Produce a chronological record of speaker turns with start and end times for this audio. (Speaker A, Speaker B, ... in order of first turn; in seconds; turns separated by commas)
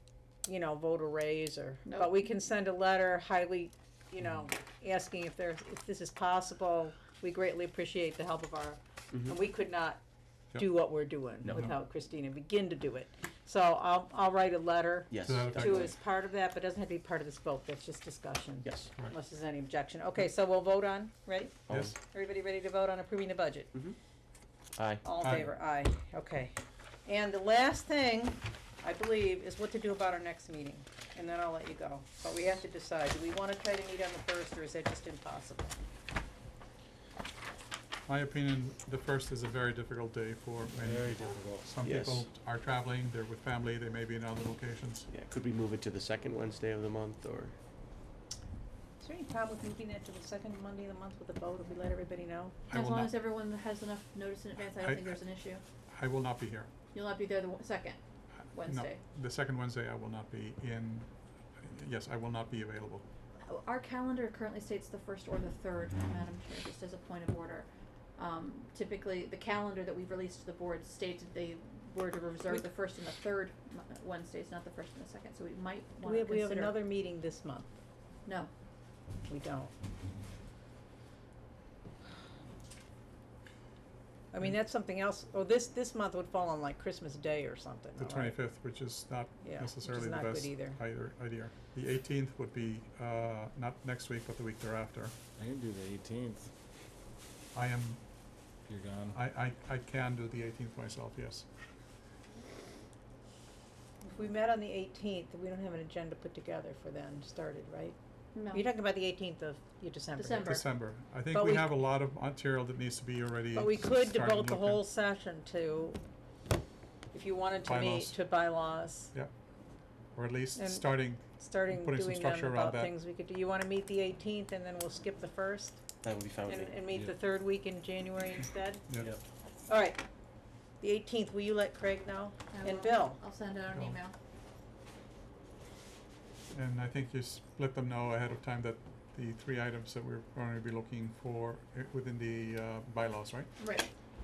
Speaker A: 0.4-10.0, Speaker B: 1.9-2.1, Speaker A: 10.5-23.7, Speaker C: 11.4-11.7, Speaker C: 15.1-15.9, Speaker D: 15.2-15.9, Speaker C: 18.6-18.9, Speaker C: 21.7-22.0, Speaker C: 24.8-25.1, Speaker A: 25.0-35.8, Speaker D: 25.2-25.5, Speaker D: 38.1-45.1, Speaker E: 40.7-41.7, Speaker C: 41.8-42.3, Speaker C: 45.1-47.5, Speaker A: 49.0-52.7, Speaker B: 52.7-55.6, Speaker D: 52.7-53.2, Speaker D: 54.8-55.2, Speaker D: 55.9-56.7, Speaker B: 56.9-58.0, Speaker B: 58.5-59.0, Speaker D: 58.6-63.0, Speaker B: 63.4-76.7, Speaker A: 76.0-77.7, Speaker A: 79.3-79.7, Speaker A: 84.3-88.4, Speaker D: 88.0-95.1, Speaker A: 89.4-90.8, Speaker E: 95.4-96.5, Speaker D: 97.5-98.0, Speaker E: 98.7-99.2, Speaker D: 99.1-101.5, Speaker A: 104.0-108.0, Speaker B: 108.3-108.7, Speaker A: 108.5-110.6, Speaker B: 110.2-110.6, Speaker D: 110.4-114.8, Speaker A: 111.3-111.7, Speaker A: 113.5-116.0, Speaker A: 117.1-119.1, Speaker D: 117.6-118.2, Speaker D: 120.1-122.9, Speaker A: 120.5-125.8, Speaker C: 126.0-126.8, Speaker A: 126.5-128.8, Speaker D: 128.9-129.1, Speaker A: 129.7-130.0, Speaker A: 130.8-133.2, Speaker B: 132.5-134.1, Speaker D: 136.5-143.5, Speaker B: 143.6-143.9